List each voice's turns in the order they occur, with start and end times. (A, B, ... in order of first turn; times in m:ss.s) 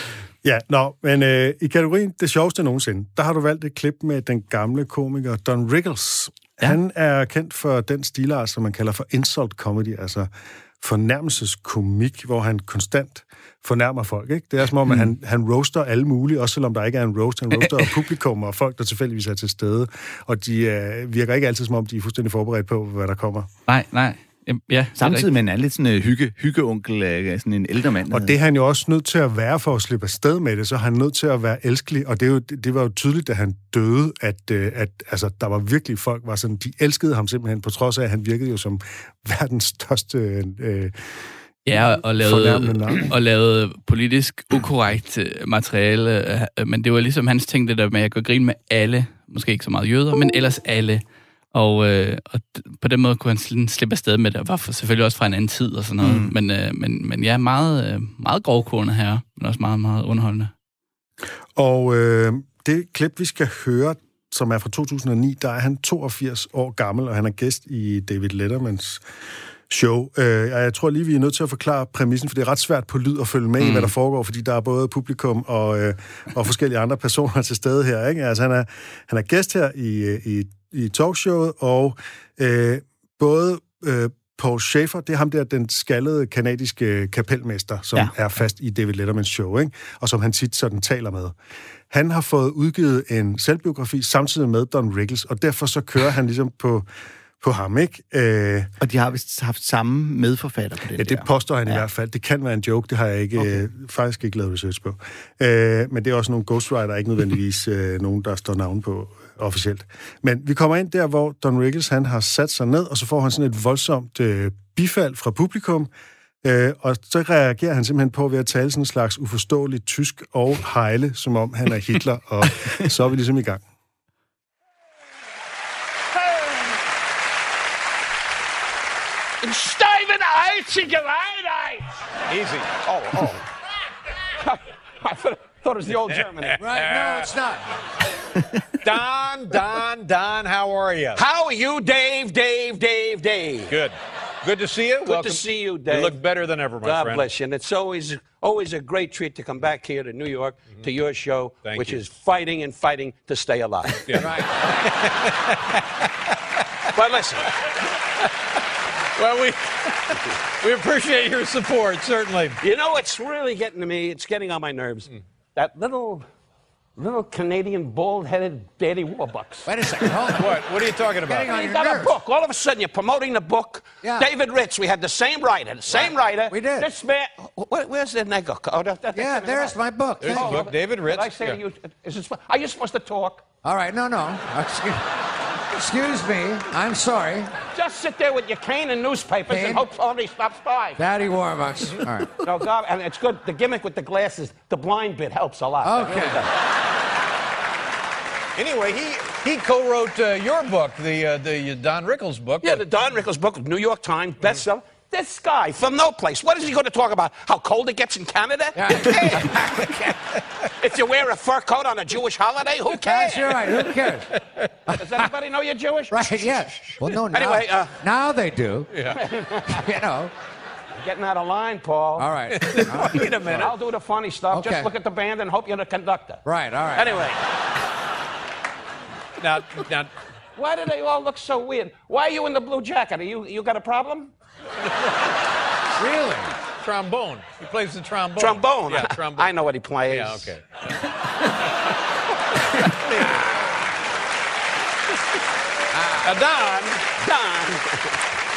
0:00.4-0:10.3 A
0:10.8-0:23.5 A
0:23.7-0:25.3 B
0:25.0-0:28.3 C
0:28.1-0:41.2 A
0:41.6-1:00.5 B
0:41.7-0:43.1 A
0:56.0-0:56.3 C
1:01.5-1:09.0 A
1:09.7-1:31.3 A
1:13.6-1:13.9 B
1:31.9-1:36.9 A
1:37.4-1:38.7 A
1:38.8-1:41.8 C
1:40.9-1:55.9 A
1:56.4-2:03.6 A
2:09.4-2:11.9 D
2:12.3-2:12.7 E
2:12.7-2:13.4 D
2:14.4-2:16.6 D
2:16.1-2:17.3 E
2:16.6-2:17.7 F
2:18.8-2:21.2 E
2:21.1-2:23.7 D
2:23.7-2:27.2 E
2:25.0-2:26.2 D
2:26.8-2:34.3 D
2:31.6-2:32.0 E
2:33.8-2:36.1 E
2:34.2-2:34.6 F
2:36.9-2:37.6 D
2:39.2-2:42.6 E
2:42.6-2:46.2 D
2:47.0-2:49.7 D
2:49.6-2:52.1 F
2:50.3-2:51.5 E
2:51.5-3:03.4 D
2:54.0-2:54.3 F
2:56.5-2:56.9 F
2:59.1-3:00.6 F
3:00.2-3:01.6 E
3:03.6-3:05.0 F
3:05.7-3:07.5 F
3:07.7-3:11.0 D
3:09.5-3:09.8 F
3:11.0-3:12.4 F
3:12.4-3:16.5 D
3:15.8-3:16.4 F
3:18.6-3:22.8 E
3:22.6-3:29.9 D
3:28.8-3:30.1 F
3:30.8-3:33.7 D
3:33.0-3:34.3 F
3:35.0-3:36.6 D
3:36.1-3:38.9 F
3:37.3-3:37.9 D
3:38.9-3:39.2 E
3:39.1-3:39.8 D
3:39.8-3:40.3 F
3:41.0-3:47.4 D
3:42.2-3:43.3 F
3:42.5-3:43.7 E
3:44.5-3:44.9 F
3:46.4-3:47.2 F
3:49.4-3:50.1 E
3:50.6-3:54.3 D
3:56.0-3:56.4 F
3:56.4-3:59.5 E
3:58.4-4:00.5 D
4:00.1-4:00.6 E
4:02.8-4:03.4 E
4:05.9-4:07.0 E
4:07.2-4:07.8 D